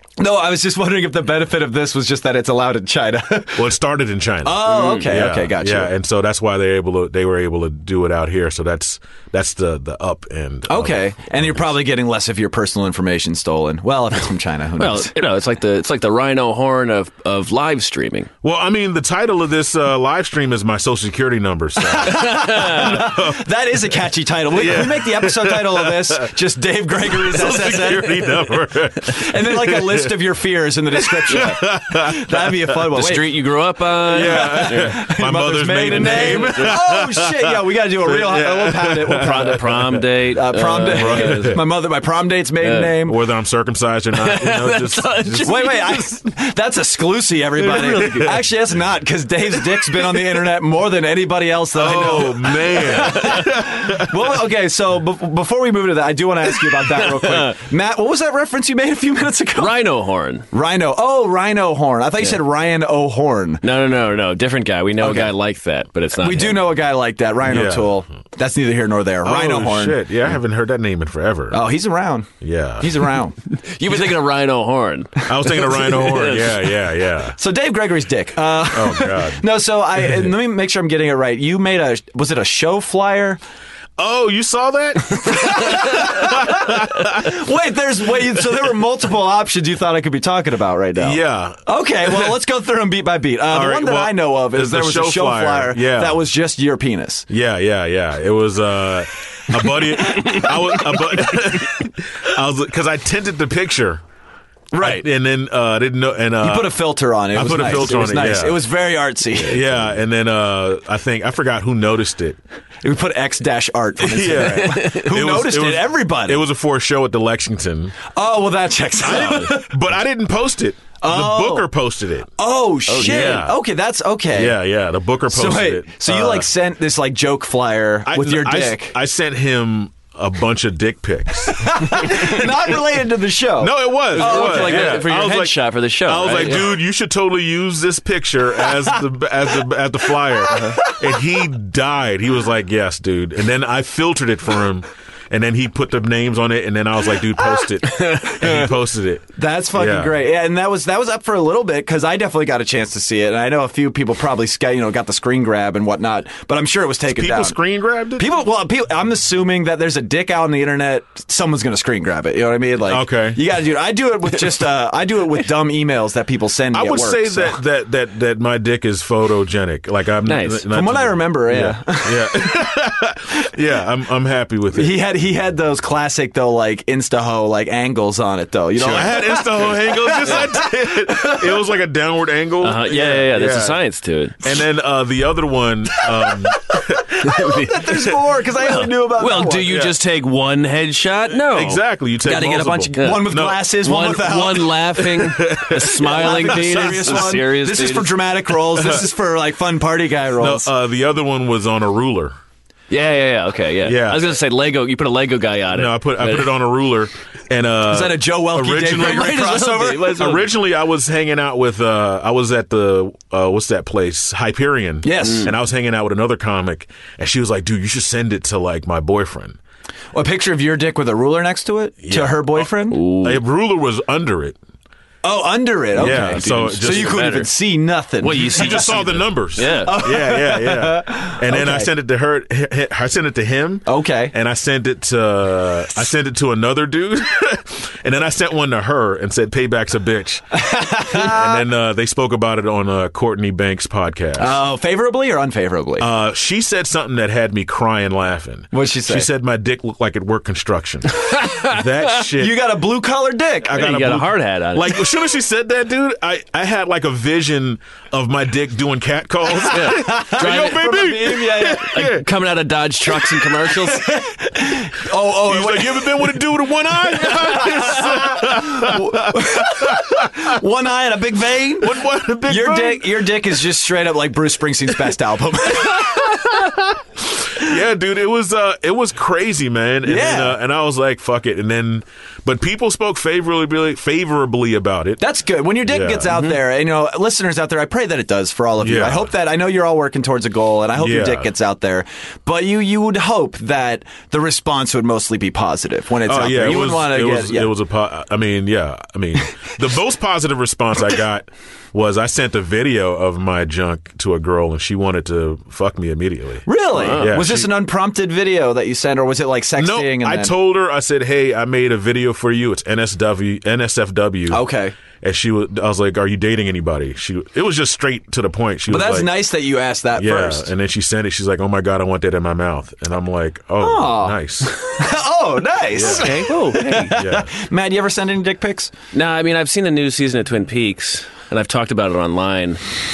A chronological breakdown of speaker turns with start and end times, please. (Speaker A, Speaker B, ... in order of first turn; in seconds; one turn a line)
Speaker A: 0.2-3.7
Speaker B: 3.5-11.7
Speaker A: 4.4-5.9
Speaker C: 4.7-5.1
Speaker A: 10.7-15.1
Speaker C: 14.8-18.3
Speaker B: 18.4-23.5
Speaker A: 21.8-28.5
Speaker C: 22.0-23.1
Speaker B: 24.5-26.3
Speaker B: 27.1-30.1
Speaker C: 27.4-28.0
Speaker A: 29.1-33.3
Speaker B: 31.1-32.9
Speaker C: 32.9-35.0
Speaker B: 34.1-40.0
Speaker A: 34.1-39.6
Speaker C: 35.8-36.8
Speaker C: 39.2-41.6
Speaker A: 40.3-43.2
Speaker B: 40.8-41.6
Speaker C: 42.6-42.9
Speaker B: 43.0-45.6
Speaker C: 44.1-46.1
Speaker A: 45.4-59.8
Speaker C: 47.6-48.3
Speaker B: 51.7-54.2
Speaker C: 56.9-57.5
Speaker C: 59.6-60.5
Speaker A: 60.5-63.6
Speaker C: 63.6-66.7
Speaker A: 65.0-65.3
Speaker A: 66.2-70.0
Speaker B: 67.5-68.0
Speaker B: 69.2-71.6
Speaker A: 71.5-73.3
Speaker B: 72.4-73.1
Speaker C: 73.5-76.7
Speaker B: 75.2-77.4
Speaker A: 77.4-83.4
Speaker B: 78.7-79.5
Speaker B: 84.0-87.4
Speaker A: 85.2-97.2
Speaker B: 91.0-92.3
Speaker B: 93.5-96.2
Speaker B: 97.3-104.0
Speaker A: 100.0-101.4
Speaker A: 104.7-105.1
Speaker B: 104.8-108.6
Speaker A: 106.4-109.8
Speaker B: 109.4-112.4
Speaker A: 112.8-116.5
Speaker B: 114.0-118.0
Speaker C: 114.7-115.0
Speaker A: 118.1-119.7
Speaker B: 119.0-122.3
Speaker A: 121.0-121.7
Speaker A: 122.4-124.5
Speaker C: 122.9-123.5
Speaker B: 123.0-123.5
Speaker B: 124.3-126.5
Speaker A: 125.3-128.9
Speaker B: 128.1-132.4
Speaker A: 131.5-135.1
Speaker B: 133.6-150.1
Speaker C: 134.1-136.7
Speaker A: 138.6-139.0
Speaker A: 140.3-141.2
Speaker C: 147.8-148.7
Speaker A: 149.4-157.6
Speaker B: 157.1-158.3
Speaker A: 158.2-167.6
Speaker B: 162.9-163.4
Speaker B: 166.7-175.0
Speaker C: 170.2-170.7
Speaker A: 170.7-172.7
Speaker A: 174.7-181.6
Speaker B: 178.8-183.8
Speaker C: 182.6-184.5
Speaker B: 184.4-187.1
Speaker A: 186.0-189.8
Speaker C: 187.2-191.8
Speaker B: 189.7-189.9
Speaker B: 191.5-193.7
Speaker A: 192.2-195.4
Speaker C: 192.9-198.1
Speaker B: 195.3-197.4
Speaker A: 195.9-200.7
Speaker B: 198.7-199.0
Speaker B: 200.4-202.3
Speaker C: 202.9-206.5
Speaker B: 203.8-204.3
Speaker B: 205.7-209.5
Speaker A: 207.9-210.2
Speaker C: 208.9-210.5
Speaker B: 210.1-219.6
Speaker A: 215.0-215.5
Speaker A: 220.1-223.0
Speaker B: 222.0-224.6
Speaker C: 222.9-223.4
Speaker A: 225.2-231.9
Speaker B: 226.0-227.2
Speaker C: 226.0-227.5
Speaker C: 228.2-230.0
Speaker B: 228.4-244.6
Speaker A: 233.8-234.3
Speaker A: 240.5-241.6
Speaker A: 244.4-246.1
Speaker B: 246.0-252.6
Speaker A: 248.7-249.3
Speaker C: 251.2-251.8
Speaker A: 252.4-253.8
Speaker C: 253.7-255.0
Speaker B: 253.7-262.2
Speaker A: 259.6-261.9
Speaker C: 259.7-260.9
Speaker C: 261.9-264.1
Speaker A: 263.5-266.4
Speaker B: 265.3-270.6
Speaker A: 266.9-276.7
Speaker B: 271.8-273.2
Speaker B: 276.4-276.7
Speaker B: 277.5-285.2
Speaker A: 280.0-280.6
Speaker A: 285.2-297.7
Speaker B: 285.8-286.4
Speaker B: 288.8-289.3
Speaker B: 291.0-291.5
Speaker B: 296.2-307.7
Speaker A: 306.6-310.5
Speaker C: 306.9-307.4
Speaker B: 309.8-314.6
Speaker A: 314.5-314.9
Speaker B: 315.2-319.4
Speaker A: 318.9-320.7
Speaker B: 320.1-324.9
Speaker A: 323.8-328.9
Speaker B: 325.9-326.5
Speaker C: 326.0-327.2
Speaker B: 327.1-327.5
Speaker C: 329.1-332.8